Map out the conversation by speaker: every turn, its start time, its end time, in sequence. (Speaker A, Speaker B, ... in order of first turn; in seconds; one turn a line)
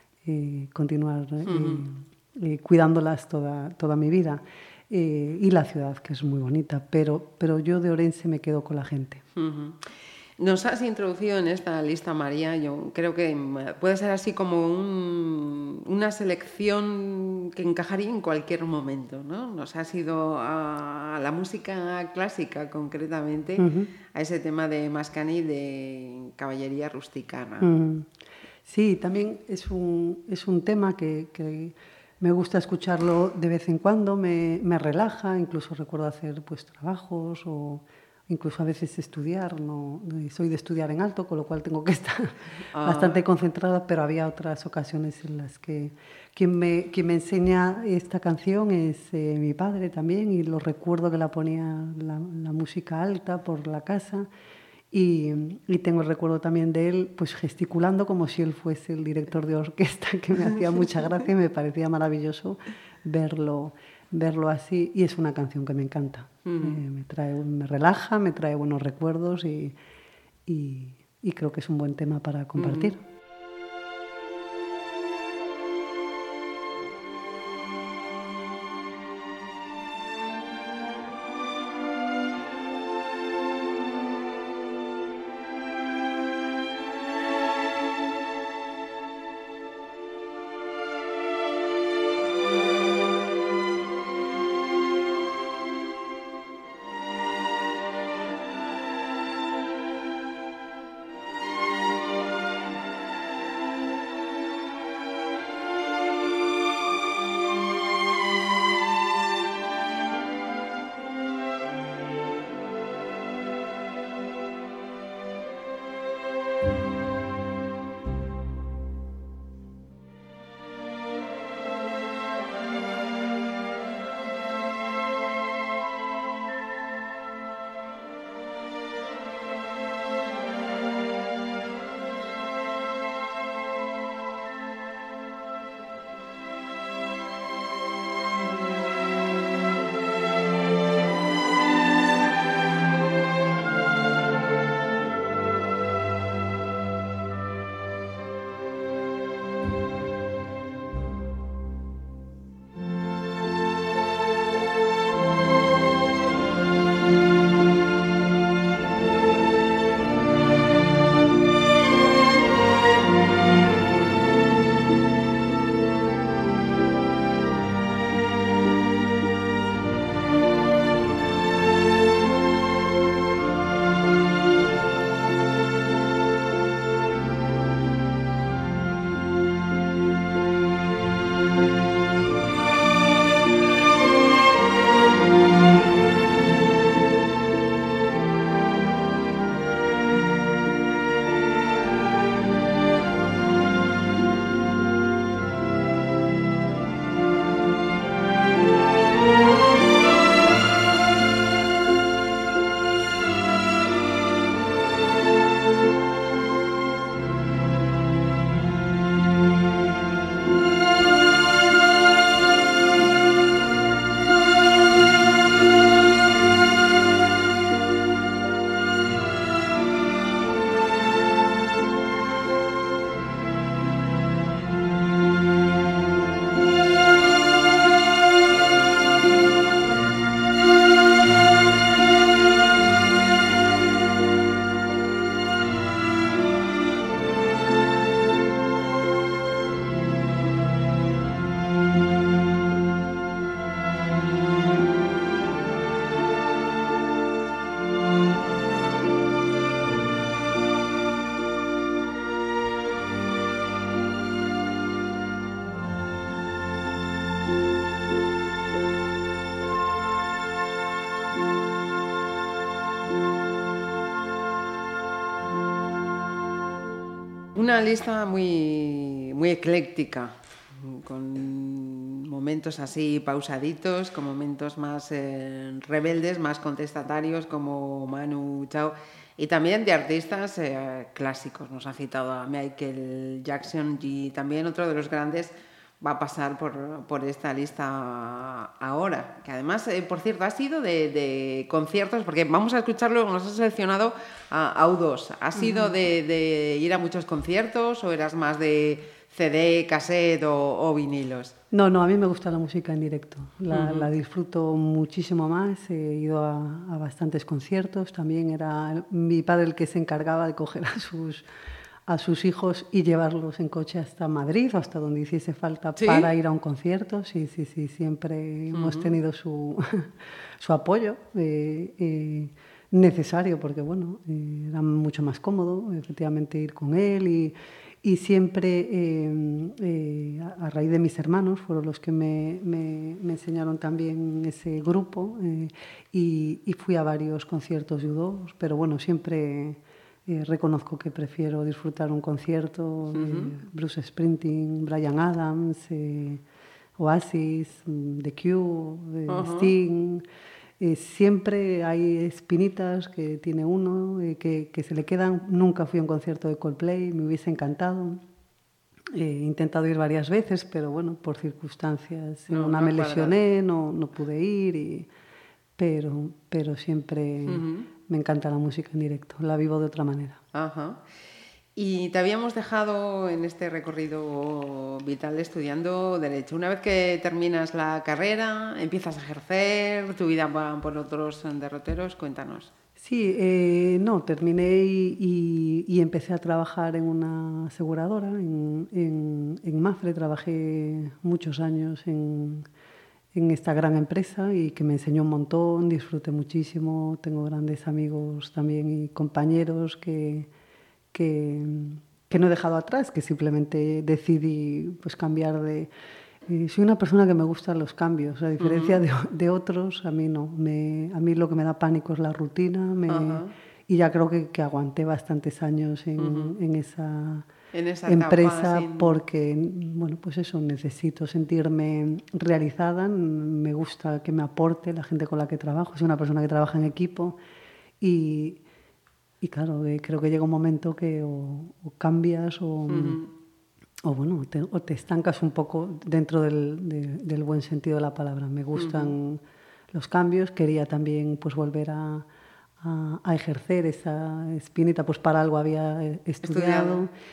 Speaker A: 0.2-9.2
Speaker B: 1.4-1.8
Speaker B: 9.3-9.8
Speaker B: 10.4-27.7
Speaker A: 23.6-23.9
Speaker A: 27.6-28.1
Speaker A: 28.6-54.3
Speaker B: 42.7-43.2
Speaker A: 54.9-69.8
Speaker B: 66.5-66.8
Speaker A: 70.5-73.0
Speaker B: 72.6-72.9
Speaker B: 267.5-301.5
Speaker A: 295.5-295.9
Speaker A: 301.7-311.4
Speaker B: 303.7-304.1
Speaker A: 312.1-346.4
Speaker B: 316.0-316.3
Speaker B: 318.7-319.1
Speaker B: 343.1-343.5
Speaker A: 347.0-350.2
Speaker B: 349.3-349.7
Speaker A: 350.8-358.2
Speaker A: 359.1-365.1
Speaker B: 362.5-363.3
Speaker A: 365.8-370.4
Speaker B: 367.5-367.9
Speaker B: 370.5-371.0
Speaker B: 371.8-382.7
Speaker A: 383.0-392.7
Speaker A: 393.3-400.5
Speaker A: 401.1-405.9
Speaker A: 406.5-417.5
Speaker B: 408.6-409.0
Speaker B: 413.1-413.5
Speaker B: 416.2-416.5
Speaker B: 417.7-419.2
Speaker A: 418.1-427.4
Speaker A: 428.0-428.6
Speaker A: 429.4-433.2
Speaker B: 432.9-433.3
Speaker A: 434.0-439.4
Speaker B: 438.7-439.1
Speaker A: 439.9-442.2
Speaker A: 442.8-447.1
Speaker B: 446.4-447.0